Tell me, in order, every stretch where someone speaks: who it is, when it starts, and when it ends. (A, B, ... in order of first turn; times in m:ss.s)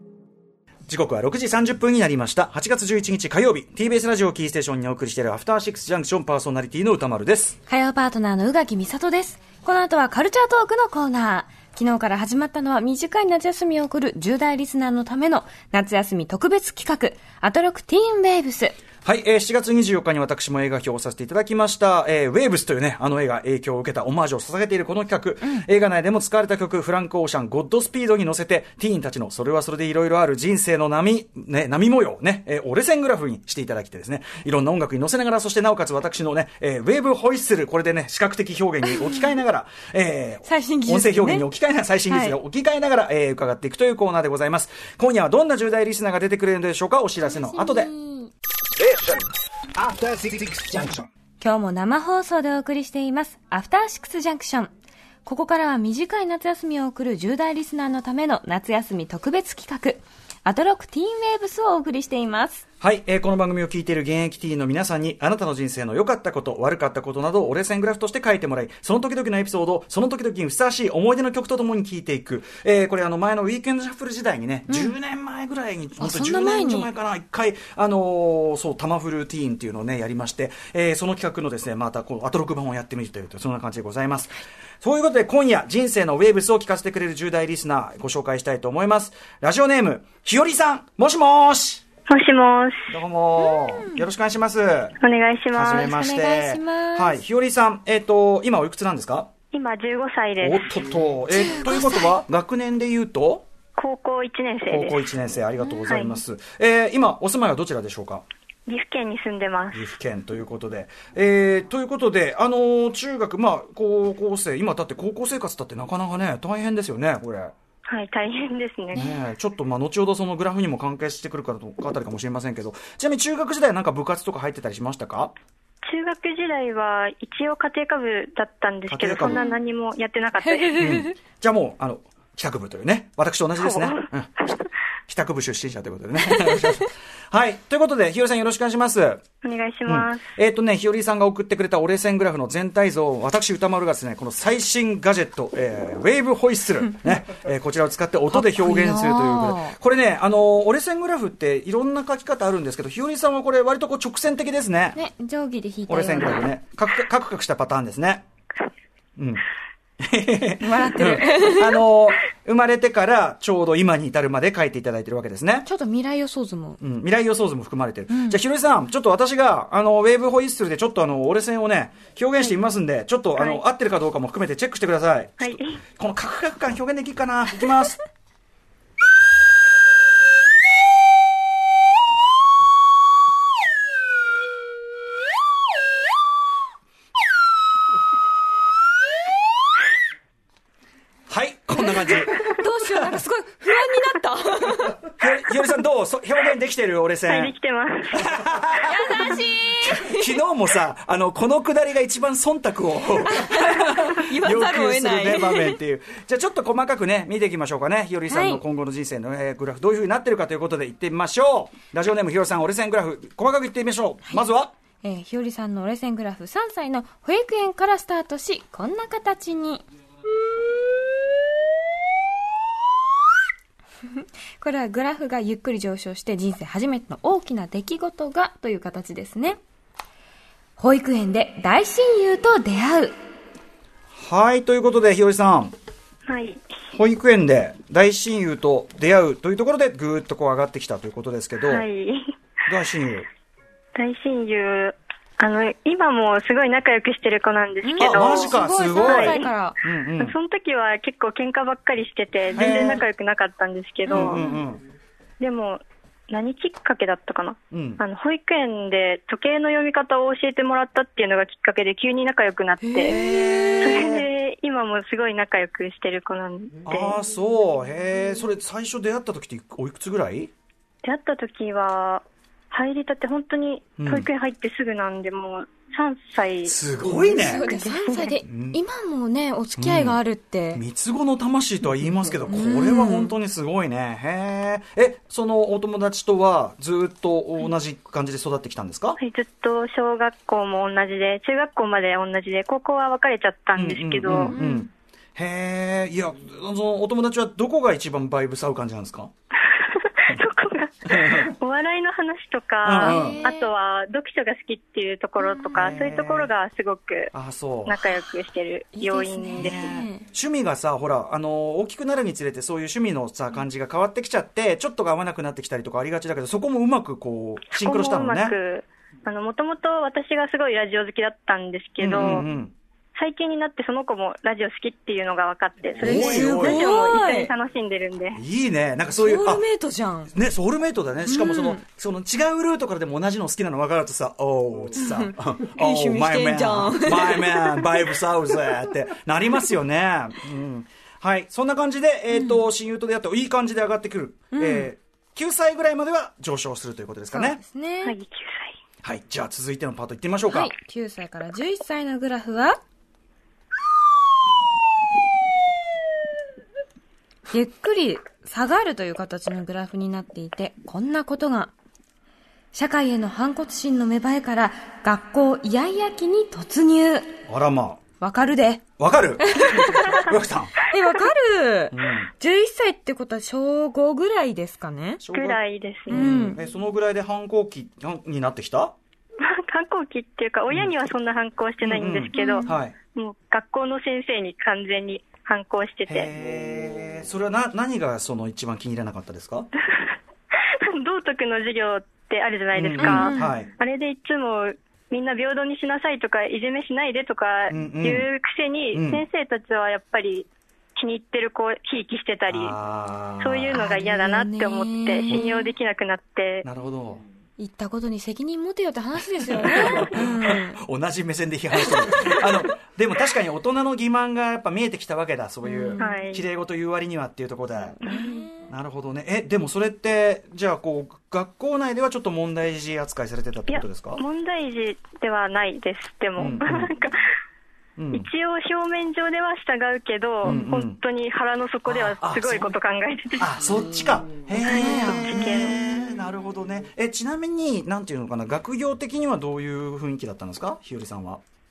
0:00.9-0:07.6 A
0:07.7-0:18.8 B
0:19.0-0:47.9 A
0:39.0-0:39.3 B
0:40.4-0:41.4 B
0:42.1-0:42.4 B
0:47.2-0:48.3 B
0:48.8-0:49.2 A
0:49.8-0:51.1 A
0:51.4-0:54.7 B
0:55.2-1:02.6 B
1:02.8-1:31.8 A
1:14.7-1:14.9 B
1:16.0-1:16.9 B
1:32.1-1:32.9 C
1:32.9-1:35.0 A
1:33.4-1:34.0 B
1:35.0-1:35.9 C
1:35.5-1:39.3 A
1:35.7-1:37.2 B
1:39.5-1:40.7 C
1:40.4-1:43.4 A
1:41.3-1:42.1 B
1:43.8-1:45.1 C
1:44.7-1:48.2 A
1:45.9-1:46.1 C
1:48.7-1:49.8 C
1:49.7-1:57.5 A
1:57.9-1:59.1 C
1:58.9-2:05.3 A
2:05.8-2:10.8 C
2:08.9-2:09.4 A
2:09.3-2:09.6 B
2:10.4-2:11.1 B
2:10.8-2:14.5 A
2:13.6-2:14.6 C
2:15.1-2:19.2 A
2:16.4-2:16.7 B
2:19.4-2:20.3 C
2:19.9-2:35.0 A
2:28.3-2:29.7 B
2:34.9-2:36.5 B
2:35.9-2:38.2 A
2:39.2-2:39.4 A
2:40.0-2:45.7 A
2:40.6-2:41.8 B
2:45.6-2:46.8 B
2:46.8-2:58.0 A
2:48.1-2:48.4 B
2:53.4-2:53.6 C
2:55.4-2:55.8 C
3:11.3-3:12.5 A
3:11.9-3:15.1 B
3:15.2-3:17.5 A
3:17.2-3:18.3 C
3:18.1-3:34.7 A
3:18.8-3:20.4 B
3:23.2-3:25.8 B
3:28.3-3:28.6 B
3:35.0-3:39.8 B
3:44.1-3:49.6 B
3:50.8-3:53.1 B
3:54.2-3:55.7 A
3:56.3-3:56.6 C
3:56.9-4:01.8 A
4:01.7-4:02.3 C
4:02.7-4:03.3 A
4:04.0-4:09.5 C
4:07.8-4:09.8 B
4:08.0-4:10.3 A
4:10.2-4:14.4 C
4:12.5-4:13.0 A
4:14.1-4:14.6 B
4:14.1-4:14.8 A
4:15.4-4:23.2 C
4:17.7-4:18.0 A
4:22.8-4:24.1 B
4:23.0-4:24.2 A
4:23.8-4:27.2 C
4:26.8-4:30.5 A
4:31.0-4:38.4 C
4:34.0-4:34.3 A
4:36.6-4:37.6 A
4:37.2-4:40.8 B
4:38.4-4:38.8 A
4:39.8-4:40.2 A
4:40.7-4:49.2 A
4:42.5-4:43.3 B
4:49.2-4:54.6 C
4:53.7-4:59.3 A
4:54.3-4:54.9 B
4:59.6-5:07.3 C
5:01.0-5:01.5 A
5:02.8-5:03.4 A
5:03.0-5:03.7 B
5:05.4-5:05.7 B
5:05.7-5:06.5 A
5:07.3-5:08.0 A
5:07.8-5:09.8 C
5:08.9-5:10.2 B
5:09.6-5:18.6 A
5:17.7-5:22.4 C
5:22.0-5:22.7 A
5:23.2-5:28.4 C
5:26.0-5:26.9 A
5:26.0-5:27.5 B
5:28.3-5:29.6 A
5:29.2-5:30.3 B
5:30.3-5:47.6 A
5:31.3-5:31.8 B
5:35.0-5:38.0 B
5:42.3-5:42.6 B
5:44.5-5:44.9 B
5:47.3-5:48.2 B
5:48.0-5:48.8 C
5:49.0-5:50.7 A
5:50.5-5:52.8 B
5:57.5-6:01.7 B
6:02.7-6:07.4 B
6:07.5-6:08.0 A
6:08.2-6:08.8 B
6:09.0-6:10.8 A
6:09.4-6:10.3 B
6:10.8-6:15.2 B
6:11.9-6:12.3 A
6:15.2-6:18.9 A
6:15.3-6:16.3 C
6:16.1-6:16.6 B
6:19.4-6:26.3 C
6:21.8-6:22.9 A
6:22.3-6:22.7 B
6:26.1-6:29.7 A
6:30.6-6:42.8 C
6:32.7-6:33.7 A
6:33.0-6:33.6 B
6:37.7-6:38.3 A
6:38.9-6:39.2 A
6:42.5-6:43.8 A
6:43.4-6:46.7 C
6:43.7-6:45.7 B
6:46.6-6:47.2 A
6:47.6-6:50.8 B
6:49.7-6:58.0 A
6:51.9-6:52.4 B
6:55.6-6:56.1 B
6:56.0-6:56.4 C
6:58.0-6:58.6 B
6:58.0-6:58.5 C
6:58.7-7:04.2 A
7:03.7-7:07.2 C
7:06.4-7:06.9 A
7:08.0-7:08.3 A
7:08.1-7:13.5 C
7:10.4-7:11.0 A
7:11.8-7:12.8 A
7:13.4-7:21.4 A
7:14.6-7:15.6 B
7:14.7-7:15.8 C